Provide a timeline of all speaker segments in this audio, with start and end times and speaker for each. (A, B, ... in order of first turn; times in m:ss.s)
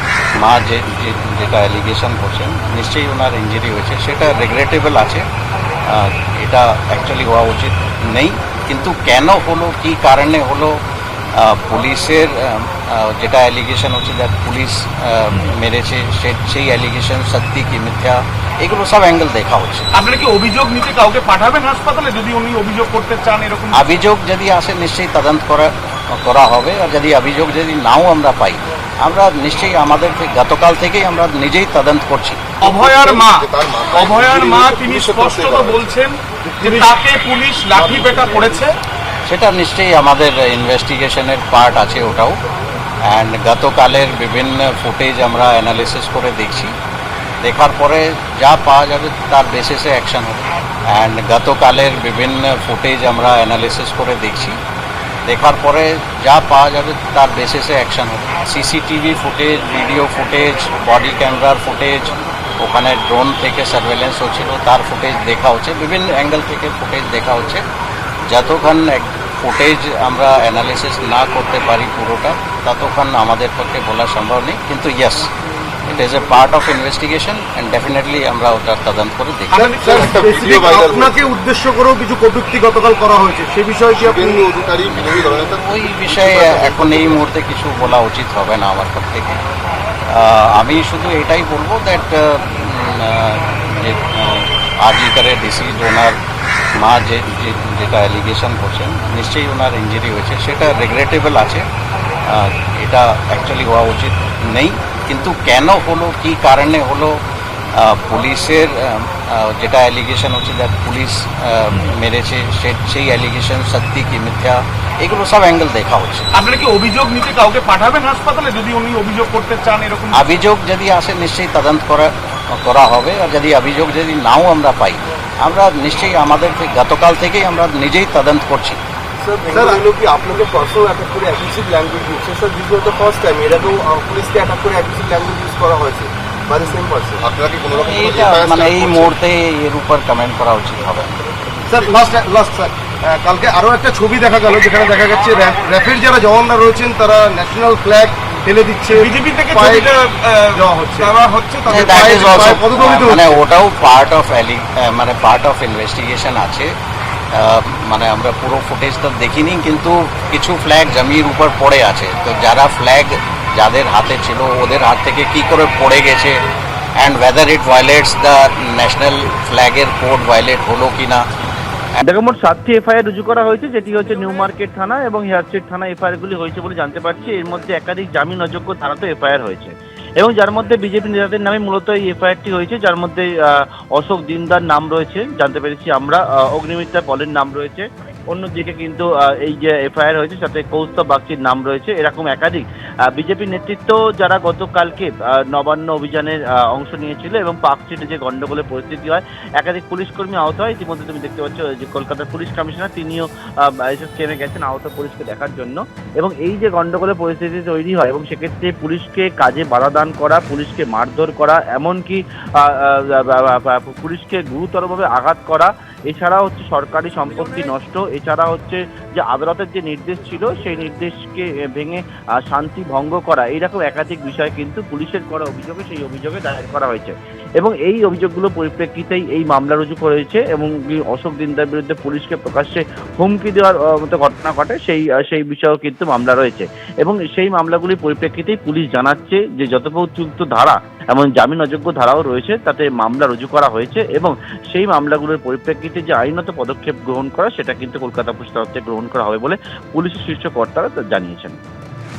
0:00.4-0:05.2 A
0:05.9-0:10.8 A
0:11.4-0:19.9 A
0:20.0-0:23.9 B
0:23.7-0:32.4 A
0:32.6-0:38.7 B
0:32.7-0:35.8 C
0:32.7-0:33.3 D
0:34.0-0:35.8 D
0:39.3-0:42.4 A
0:43.1-0:46.8 A
0:47.4-0:54.6 A
0:55.3-1:07.6 A
1:08.3-1:15.3 A
1:15.8-1:19.7 A
1:19.5-1:20.1 B
1:19.5-1:24.5 E
1:19.9-1:21.1 D
1:20.0-1:21.1 C
1:24.0-1:27.3 C
1:24.9-1:29.4 A
1:30.1-1:36.2 A
1:36.8-1:41.6 A
1:42.3-1:47.2 A
1:47.8-1:56.3 A
1:56.4-2:00.3 B
2:00.1-2:08.8 A
2:09.2-2:17.3 D
2:09.5-2:09.8 E
2:17.2-2:19.2 C
2:17.7-2:21.2 A
2:21.7-2:29.9 E
2:29.0-2:32.2 B
2:30.5-2:33.4 E
2:31.7-2:36.7 A
2:37.3-2:46.4 A
2:47.0-2:51.2 A
2:52.0-3:03.3 F
3:04.0-4:11.6 F